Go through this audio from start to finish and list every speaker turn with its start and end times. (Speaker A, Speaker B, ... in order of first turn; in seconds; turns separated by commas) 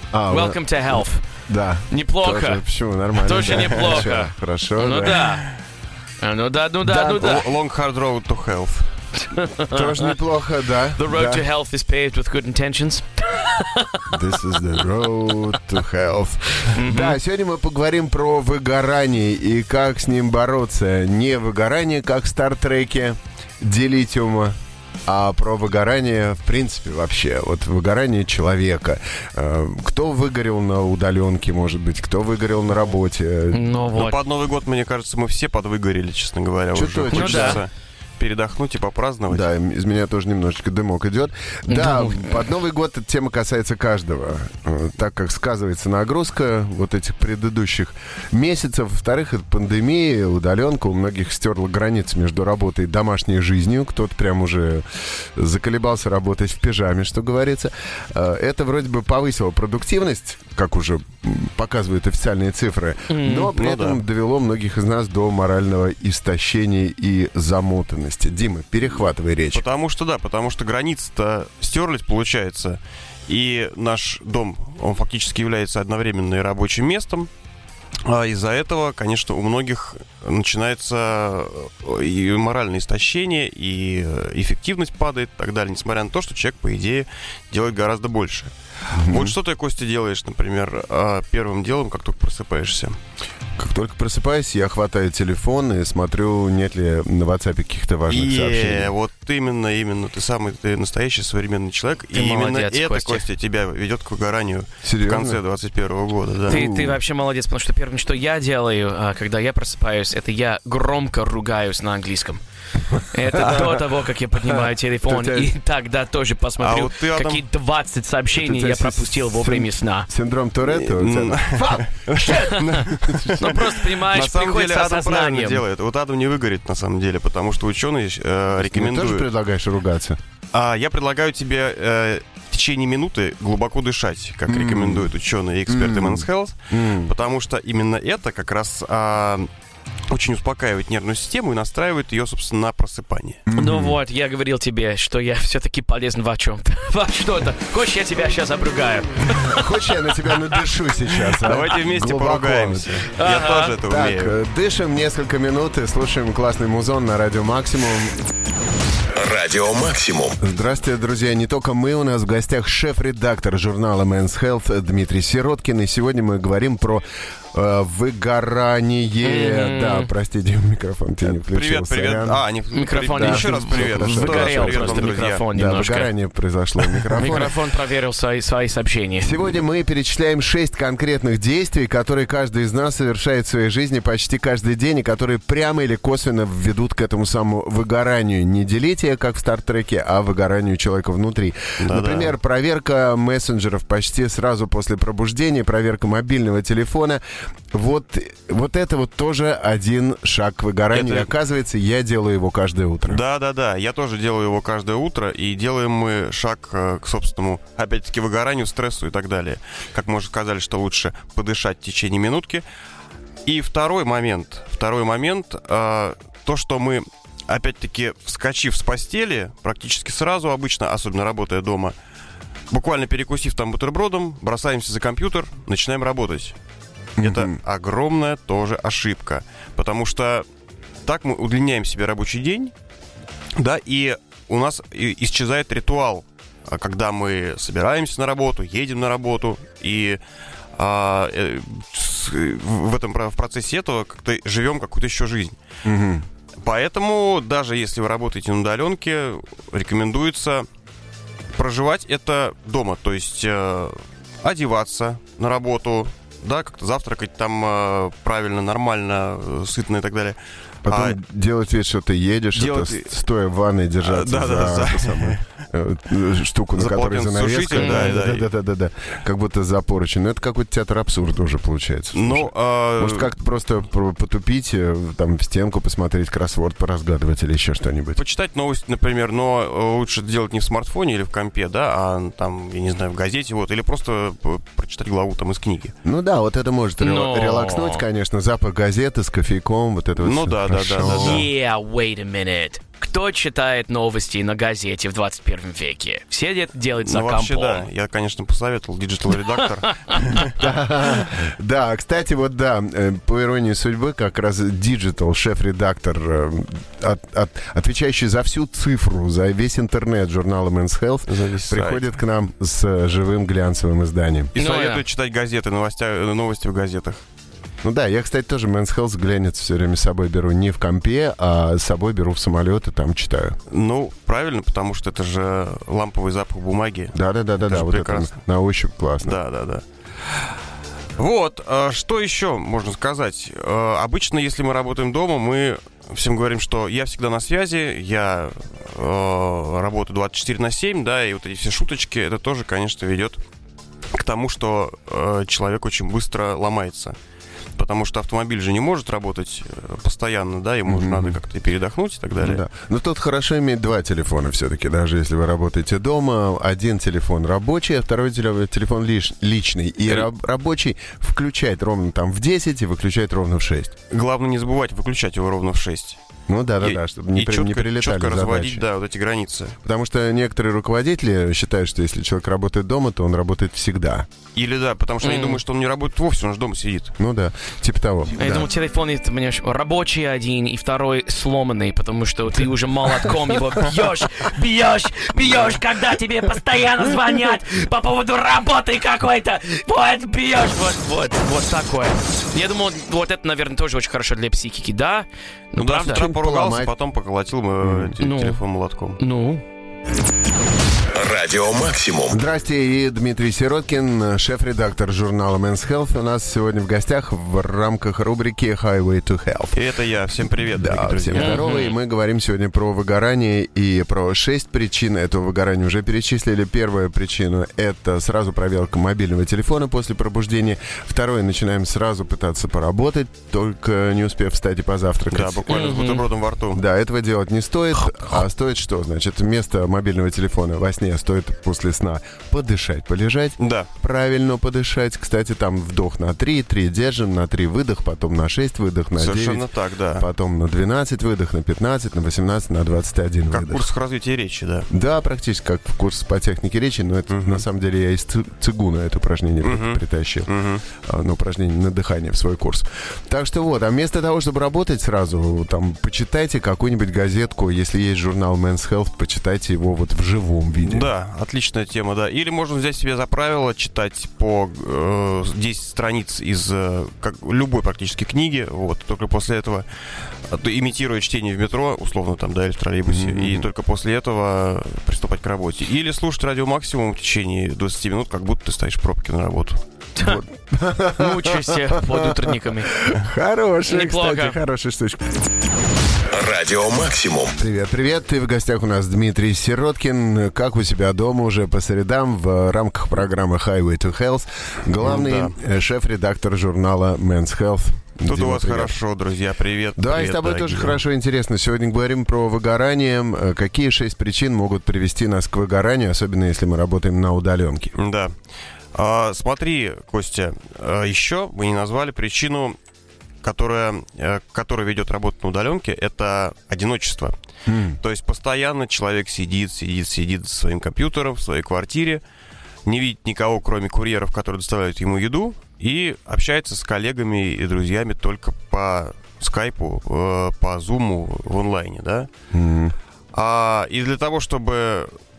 Speaker A: 0.1-5.2, Speaker B: 0.3-1.2, Speaker B: 1.9-2.6, Speaker B: 3.2-5.5, Speaker C: 3.5-4.0, Speaker C: 5.0-5.5, Speaker B: 6.2-7.5, Speaker C: 6.9-8.9, Speaker B: 9.3-10.1, Speaker A: 9.7-11.4, Speaker B: 10.9-14.6, Speaker A: 14.1-33.6, Speaker B: 16.6-17.2, Speaker B: 33.5-34.2, Speaker C: 33.9-39.4, Speaker A: 36.7-37.6, Speaker B: 37.1-37.6, Speaker A: 39.3-54.8, Speaker B: 41.7-42.4, Speaker A: 55.3-69.6, Speaker B: 63.1-63.5, Speaker C: 63.5-64.0, Speaker C: 69.5-77.3, Speaker C: 78.0-93.0, Speaker A: 88.9-89.4, Speaker A: 93.6-98.9, Speaker C: 98.1-106.6, Speaker B: 102.1-103.2, Speaker A: 104.8-105.4, Speaker A: 106.4-107.0, Speaker B: 106.5-112.4, Speaker B: 113.0-120.1, Speaker A: 113.3-113.8, Speaker A: 115.0-115.5, Speaker C: 116.6-117.4, Speaker A: 118.3-123.4, Speaker C: 120.6-129.3, Speaker B: 122.2-125.6, Speaker A: 128.6-130.2, Speaker C: 130.5-139.5, Speaker A: 134.5-135.1, Speaker A: 135.7-137.1, Speaker C: 140.1-143.4, Speaker A: 143.5-144.0, Speaker B: 143.5-149.8, Speaker A: 149.3-153.1, Speaker C: 151.2-154.3, Speaker B: 153.2-153.8, Speaker A: 153.8-158.2, Speaker D: 159.1-160.4, Speaker A: 160.4-172.4, Speaker B: 169.2-170.1, Speaker C: 171.3-175.4, Speaker B: 172.7-176.1, Speaker A: 173.1-177.5, Speaker C: 176.9-177.5, Speaker B: 177.2-179.3, Speaker A: 179.2-203.2, Speaker C: 191.8-192.3, Speaker C: 200.9-201.3, Speaker C: 203.1-212.6, Speaker C: 213.4-221.9, Speaker C: 222.7-226.6, Speaker A: 227.2-227.6, Speaker C: 227.2-230.4, Speaker C: 231.0-232.7, Speaker C: 233.6-240.2, Speaker C: 240.8-245.6, Speaker A: 245.8-246.2, Speaker C: 246.6-250.7, Speaker C: 251.5-261.2, Speaker A: 260.8-278.2, Speaker C: 262.5-263.1, Speaker C: 264.0-265.4, Speaker C: 266.7-268.5, Speaker B: 267.8-268.2, Speaker C: 272.1-273.3, Speaker C: 278.1-285.9, Speaker A: 286.0-291.5, Speaker B: 287.0-288.0, Speaker C: 290.2-291.5, Speaker B: 291.0-297.9, Speaker C: 297.0-300.6, Speaker B: 299.8-300.2, Speaker A: 300.4-314.5, Speaker C: 311.3-312.1, Speaker C: 314.5-317.2, Speaker B: 314.6-315.0, Speaker A: 317.8-323.6, Speaker C: 323.7-328.3, Speaker A: 327.1-329.4, Speaker C: 329.2-330.4, Speaker C: 331.2-343.4, Speaker C: 344.1-347.1, Speaker C: 347.8-352.6, Speaker A: 350.9-351.4, Speaker A: 352.4-363.9, Speaker C: 364.1-366.2, Speaker A: 366.5-368.8, Speaker C: 366.8-369.8, Speaker A: 369.8-374.3, Speaker C: 374.5-377.1, Speaker B: 375.2-375.6, Speaker A: 377.2-378.7, Speaker B: 378.4-396.3, Speaker C: 395.8-399.2, Speaker A: 396.1-396.9, Speaker A: 397.8-398.2, Speaker B: 398.2-398.6, Speaker B: 399.2-399.6, Speaker D: 401.1-402.4, Speaker A: 402.3-409.8, Speaker C: 409.7-411.6, Speaker A: 410.7-425.8, Speaker B: 411.3-411.9, Speaker C: 425.3-426.8, Speaker B: 425.7-426.2, Speaker A: 426.7-443.9, Speaker C: 433.6-433.9, Speaker C: 439.1-440.3, Speaker C: 443.5-444.9, Speaker A: 444.9-450.5, Speaker C: 447.3-447.6, Speaker C: 449.6-450.8, Speaker A: 451.0-461.1, Speaker C: 460.8-469.9, Speaker C: 470.5-479.8, Speaker A: 473.1-473.7, Speaker B: 480.2-480.4, Speaker A: 480.2-485.4, Speaker B: 481.1-483.0, Speaker B: 483.9-484.6, Speaker D: 486.2-487.6, Speaker A: 487.6-498.9, Speaker C: 495.0-495.5, Speaker C: 498.2-501.0, Speaker A: 500.0-507.9, Speaker C: 507.9-508.3, Speaker C: 508.9-512.8, Speaker C: 513.4-517.3, Speaker A: 517.7-518.0, Speaker C: 518.0-522.2, Speaker C: 522.8-532.3, Speaker A: 532.5-532.9, Speaker C: 533.3-535.1